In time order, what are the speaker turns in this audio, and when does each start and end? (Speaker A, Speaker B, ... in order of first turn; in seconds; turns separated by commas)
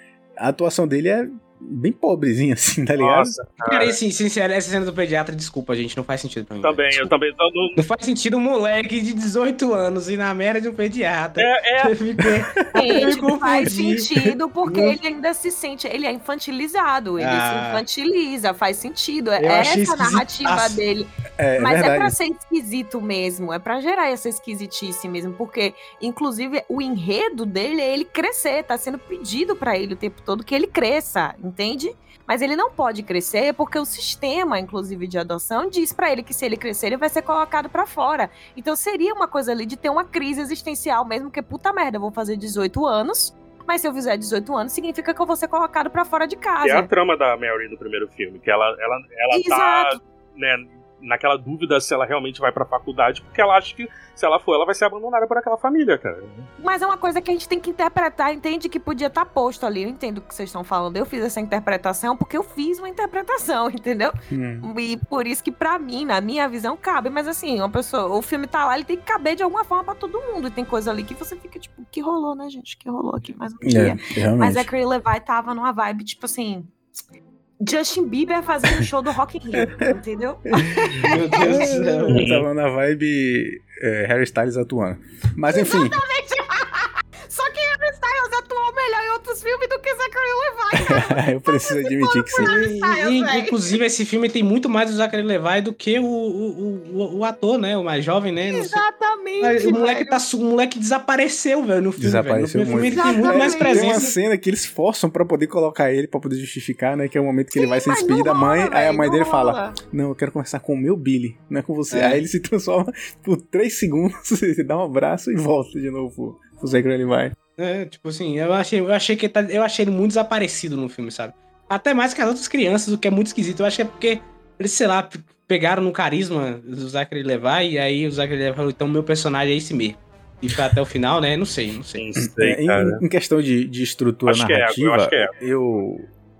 Speaker A: 0.4-3.4, Speaker B: 3.0-4.0, Speaker C: 3.6-7.1, Speaker B: 6.6-7.8, Speaker C: 7.8-14.1, Speaker B: 11.4-11.9, Speaker A: 12.2-12.6, Speaker D: 12.8-21.1, Speaker C: 14.6-15.0, Speaker C: 17.2-17.9, Speaker C: 19.4-20.8, Speaker A: 21.4-22.2, Speaker D: 21.6-46.9, Speaker B: 46.6-56.5, Speaker D: 49.3-50.0, Speaker D: 56.6-76.7, Speaker A: 64.3-64.7, Speaker A: 73.6-74.7, Speaker D: 77.6-81.8, Speaker A: 79.5-79.9, Speaker A: 80.6-86.0, Speaker C: 81.0-82.2, Speaker B: 82.1-82.5, Speaker D: 85.5-93.8, Speaker A: 90.7-92.5, Speaker C: 92.4-98.8, Speaker D: 98.4-100.2, Speaker C: 99.4-104.1, Speaker A: 102.0-117.3, Speaker D: 102.9-104.1, Speaker D: 107.5-109.8, Speaker C: 111.9-112.2, Speaker C: 117.6-132.1, Speaker B: 132.0-133.0, Speaker A: 132.2-136.1, Speaker B: 134.3-135.3